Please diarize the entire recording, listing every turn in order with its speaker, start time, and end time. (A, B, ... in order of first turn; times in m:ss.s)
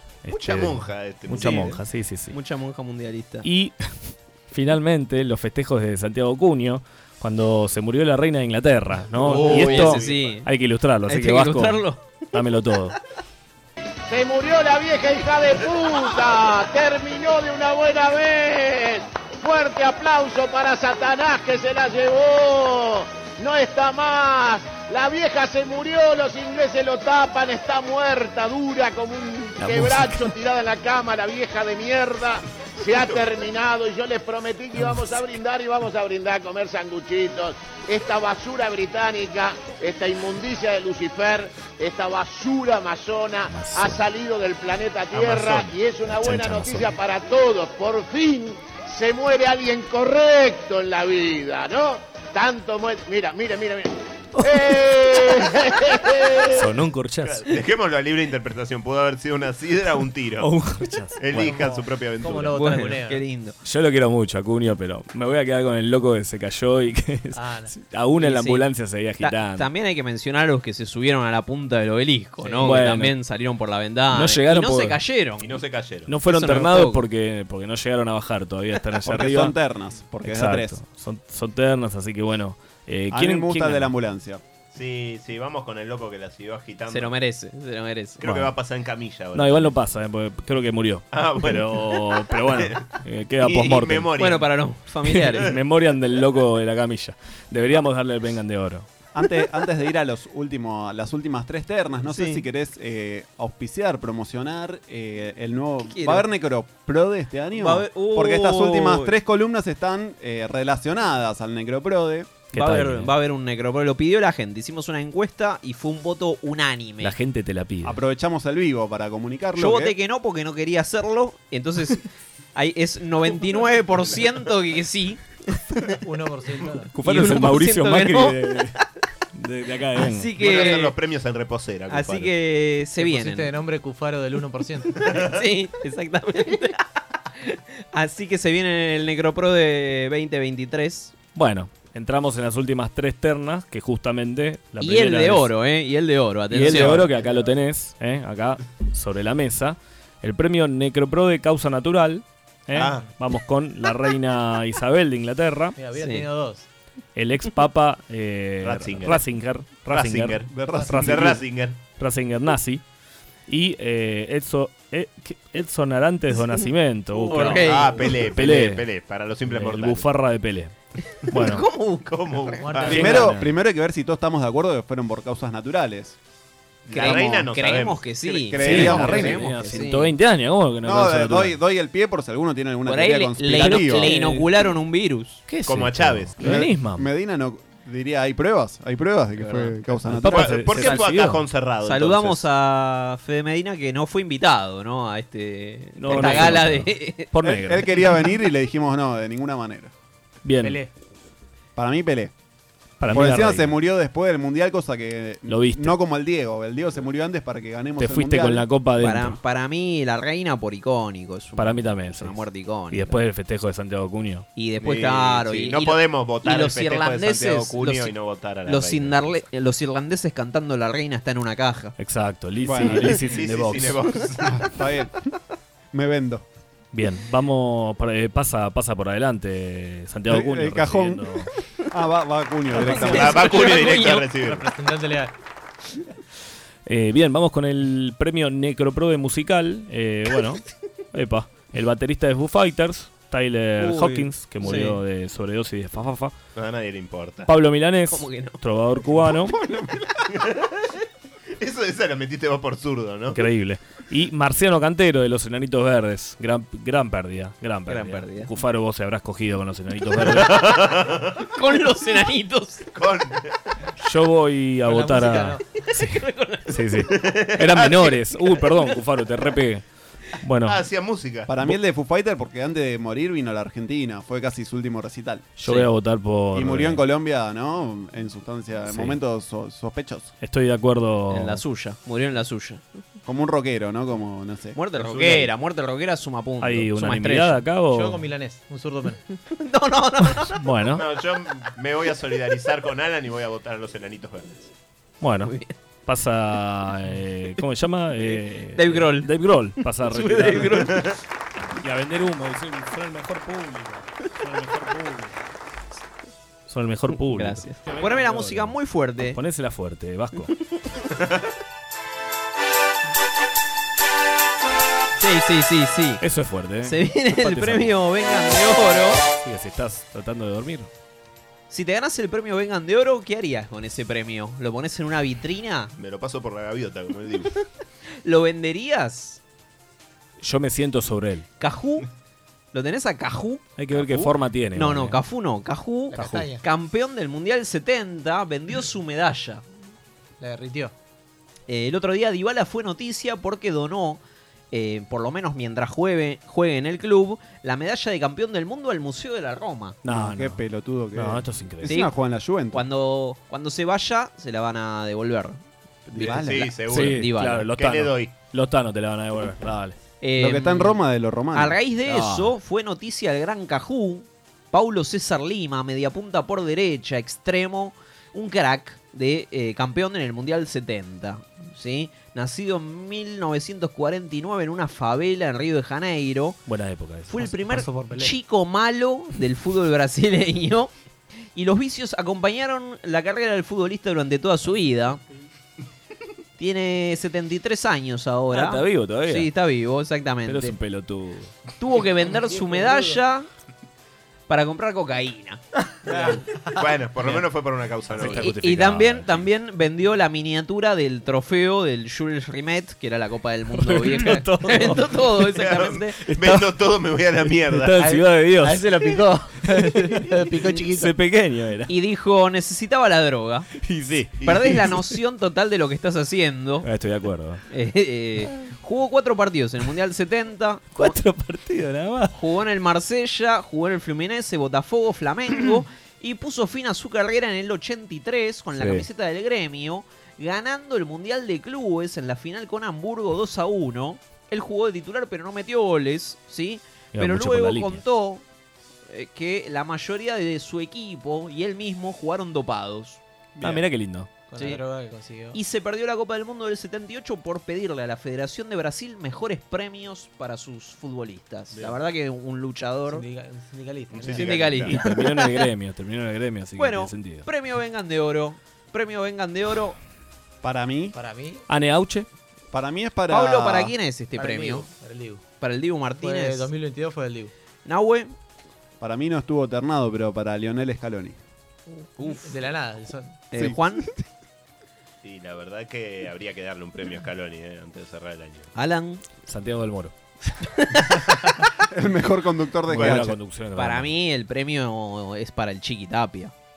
0:00.2-0:02.4 A
0:00.4-0:01.8 B
0:02.3-0:03.5 C
0:03.4-0:13.0 A
0:09.2-0:10.3 B
0:09.2-0:10.5 C
0:11.1-0:12.0 C
0:14.1-0:56.7 D
0:29.6-0:30.3 A
0:32.9-0:33.3 B
0:43.5-0:44.0 A
0:45.1-0:46.9 A
0:54.4-0:55.5 A
0:56.5-0:57.4 A
0:57.2-1:00.5 B
1:00.4-1:01.5 A
1:01.2-1:02.8 B
1:01.4-1:03.2 E
1:02.5-1:03.6 C
1:03.6-1:09.7 A
1:07.3-1:07.7 E
1:08.2-1:08.7 C
1:09.2-1:15.5 C
1:12.4-1:12.8 E
1:12.6-1:13.2 A
1:14.1-1:15.0 A
1:15.4-1:16.1 B
1:16.1-1:19.6 A
1:16.2-1:17.0 C
1:19.0-1:20.8 F
1:20.2-1:23.9 A
1:23.1-1:24.4 F
1:24.7-1:27.2 B
1:26.9-1:28.2 C
1:28.2-1:29.7 B
1:28.2-1:28.5 A
1:29.3-1:34.1 A
1:31.1-1:32.8 B
1:33.4-1:34.5 B
1:34.2-1:35.5 C
1:35.1-1:38.8 A
1:39.1-1:52.3 F
1:42.0-1:42.4 C
1:45.9-1:46.2 C
1:47.5-1:49.1 C
1:52.5-1:53.1 A
1:52.5-1:57.1 C
1:57.0-1:58.0 A
1:57.8-2:00.0 F
1:59.6-2:02.0 C
2:02.5-2:05.9 C
2:06.0-2:06.9 E
2:06.9-2:08.8 A
2:07.0-2:08.6 C
2:09.3-2:10.3 A
2:10.0-2:10.9 C
2:10.4-2:12.3 B
2:11.9-2:13.5 C
2:13.0-2:15.0 E
2:15.1-2:16.8 C
2:17.4-2:21.1 C
2:21.3-2:25.5 A
2:24.8-2:27.1 C
2:26.5-2:35.8 A
2:27.0-2:27.4 E
2:32.7-2:33.1 B
2:35.8-2:36.6 E
2:36.0-2:36.3 C
2:37.1-2:42.8 A
2:38.6-2:39.2 B
2:39.9-2:41.8 B
2:40.5-2:41.4 F
2:43.5-2:48.8 A
2:47.2-2:48.1 C
2:47.2-2:47.8 E
2:47.3-2:50.1 B
2:49.5-2:50.7 A
2:51.2-2:52.8 C
2:51.3-2:51.6 A
2:52.0-2:53.2 B
2:52.6-2:53.2 E
2:52.8-2:56.2 F
2:52.9-2:53.5 A
2:56.8-2:57.5 F
2:56.9-3:00.1 C
2:56.9-2:58.0 B
2:58.2-2:59.5 F
2:58.6-3:01.6 A
3:00.8-3:04.1 F
3:02.8-3:05.4 C
3:03.5-3:04.5 A
3:05.5-3:07.1 A
3:05.6-3:06.3 B
3:06.4-3:10.6 F
3:10.0-3:11.4 A
3:10.2-3:12.5 B
3:10.8-3:11.1 C
3:11.8-3:17.3 C
3:16.0-3:18.1 A
3:17.4-3:19.9 F
3:20.4-3:20.8 A
3:20.6-3:20.9 E
3:21.8-3:22.3 F
3:23.0-3:23.7 A
3:23.1-3:28.6 F
3:25.5-3:26.0 A
3:28.0-3:29.4 A
3:29.0-3:33.1 C
3:31.6-3:34.5 A
3:34.6-3:41.9 C
3:34.8-3:39.4 B
3:42.0-3:44.1 A
3:42.6-3:43.2 F
3:43.2-3:44.6 B
3:44.4-3:45.1 F
3:45.9-3:46.4 F
3:46.9-3:51.5 A
3:50.3-3:51.2 F
3:51.9-3:53.4 F
3:52.7-3:54.3 C
3:52.8-3:54.7 B
3:54.4-3:55.3 E
3:56.8-4:06.3 A
4:03.8-4:04.8 C
4:04.6-4:05.0 E
4:06.6-4:07.5 B
4:07.4-4:09.5 A
4:08.1-4:08.6 C
4:09.2-4:10.1 F
4:10.3-4:10.9 B
4:11.6-4:13.4 B
4:13.3-4:20.7 A
4:17.9-4:18.5 C
4:20.2-4:21.5 B
4:21.5-4:22.9 C
4:22.9-4:23.5 B
4:24.0-4:29.8 A
4:24.8-4:25.6 E
4:25.9-4:26.9 C
4:27.1-4:28.1 B
4:30.4-4:30.8 A
4:30.6-4:31.5 B
4:31.5-4:35.4 F
4:35.6-4:37.0 A
4:35.6-4:35.9 C
4:36.5-4:40.3 F
4:38.9-4:39.2 A
4:40.4-4:41.6 A
4:41.3-4:42.8 C
4:43.2-4:44.8 F
4:44.7-4:47.6 C
4:44.9-4:45.5 B
4:46.6-4:48.2 A
4:47.9-4:49.2 E
4:49.5-4:50.6 C
4:50.4-4:51.0 A
4:50.9-4:54.6 B
4:55.2-4:55.5 A
4:55.4-4:55.7 C
4:56.0-5:01.0 A
4:58.2-5:01.1 C
5:00.8-5:01.1 B
5:01.8-5:05.4 A
5:06.7-5:10.5 A
5:07.1-5:09.4 C
5:15.2-5:16.2 C
5:16.2-5:18.0 A
5:16.8-5:19.3 C
5:19.4-5:20.9 A
5:21.7-5:25.9 C
5:26.0-5:27.5 B
5:28.2-5:29.4 C
5:30.4-5:31.5 A
5:31.6-5:32.1 C
5:32.7-5:39.6 C
5:33.8-5:35.2 A
5:36.1-5:36.6 E
5:36.1-5:36.5 A
5:40.4-5:40.9 E
5:41.7-5:44.2 C
5:44.7-5:50.0 C
5:50.0-5:51.9 A
5:50.0-5:52.8 F
5:51.8-5:52.1 C
5:52.7-5:57.7 C
5:56.1-5:56.7 F
5:56.2-5:58.3 B
5:56.9-6:00.0 A
6:00.2-6:01.0 C
6:00.4-6:01.8 F
6:01.5-6:16.6 C
6:02.0-6:02.5 A
6:16.6-6:17.6 A
6:17.3-6:20.9 C
6:17.7-6:18.3 E
6:21.5-6:25.2 C
6:26.6-6:30.7 C
6:28.5-6:29.5 A
6:30.4-6:31.5 A
6:31.8-6:33.5 C
6:32.2-6:33.2 E
6:34.5-6:36.4 C
6:36.0-6:36.8 E
6:36.1-6:38.5 B
6:38.1-6:39.5 A
6:38.2-6:46.2 C
6:43.7-6:45.4 A
6:45.4-6:48.1 B
6:46.2-6:46.7 A
6:47.5-6:51.9 A
6:48.0-6:51.1 E
6:51.9-6:53.7 C
6:53.8-6:55.0 A
6:54.4-6:54.9 B
6:54.4-6:56.9 C
6:56.8-6:57.6 A
6:57.7-7:01.2 C
7:00.9-7:02.4 A
7:02.3-7:18.4 C
7:08.8-7:09.1 A
7:17.1-7:18.0 A
7:19.1-7:23.7 C
7:23.6-7:24.3 A
7:24.5-7:25.6 E
7:24.5-7:24.8 C
7:25.5-7:33.2 C
7:33.1-7:34.7 E
7:34.1-7:35.0 B
7:34.2-7:35.7 C
7:34.8-7:37.4 A
7:36.8-7:40.0 C
7:40.6-7:41.2 F
7:41.1-7:41.6 E
7:41.7-7:42.3 A
7:42.7-7:43.9 F
7:43.3-7:44.9 C
7:44.3-7:45.4 E
7:45.6-7:46.7 C
7:46.2-7:47.5 E
7:47.8-7:48.3 C
7:49.0-7:51.4 F
7:52.2-7:52.6 C
7:52.2-7:53.4 E
7:53.5-7:54.2 C
7:53.5-7:53.8 F
7:55.2-7:58.7 B
7:58.7-7:59.2 C
7:59.4-8:01.3 A
8:00.9-8:01.4 C
8:01.9-8:03.4 F
8:02.9-8:04.1 A
8:02.9-8:03.2 B
8:03.8-8:06.5 C